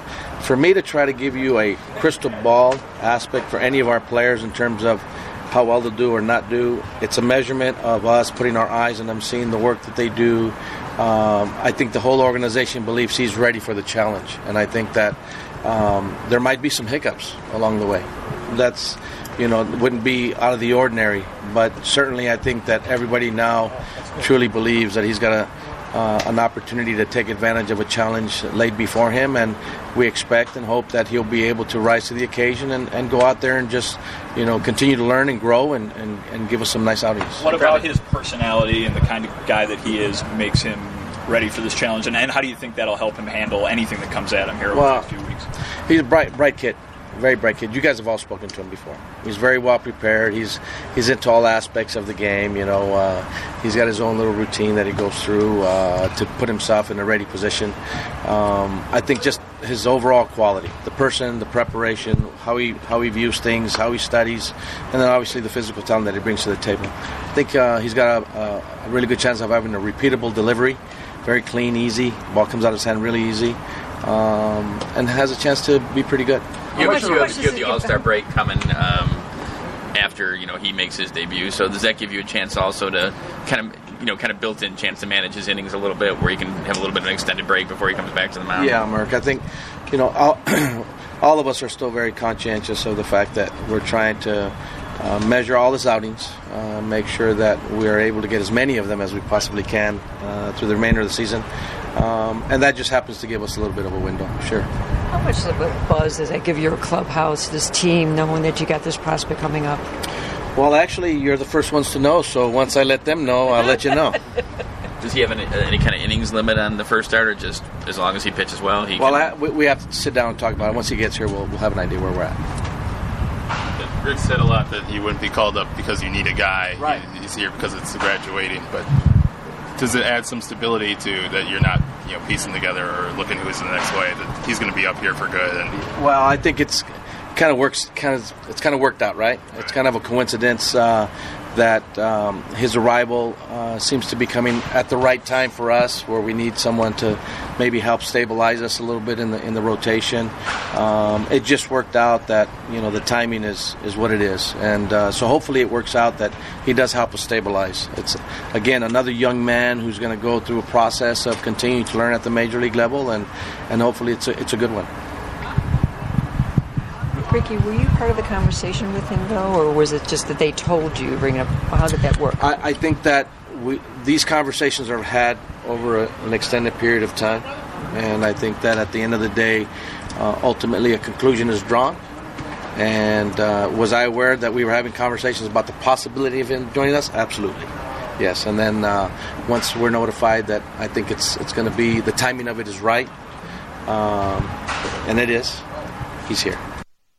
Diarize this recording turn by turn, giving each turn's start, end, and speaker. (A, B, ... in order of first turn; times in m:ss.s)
0:00.4-0:37.9 A
0:37.4-0:45.5 B
0:44.7-0:45.1 A
0:45.9-1:16.4 A
1:16.7-1:19.2 C
1:16.8-1:18.0 D
1:19.9-1:28.8 C
1:28.5-1:44.7 A
1:45.1-1:49.8 D
1:50.5-1:54.2 A
1:55.0-1:59.3 C
1:59.0-2:02.4 A
2:03.8-2:08.9 E
2:06.8-2:07.0 A
2:09.8-2:15.8 E
2:16.0-2:44.9 A
2:47.2-2:52.6 D
2:52.4-3:02.0 A
3:02.8-3:13.1 A
3:13.8-3:14.5 A
3:15.0-3:15.6 A
3:16.2-3:16.6 A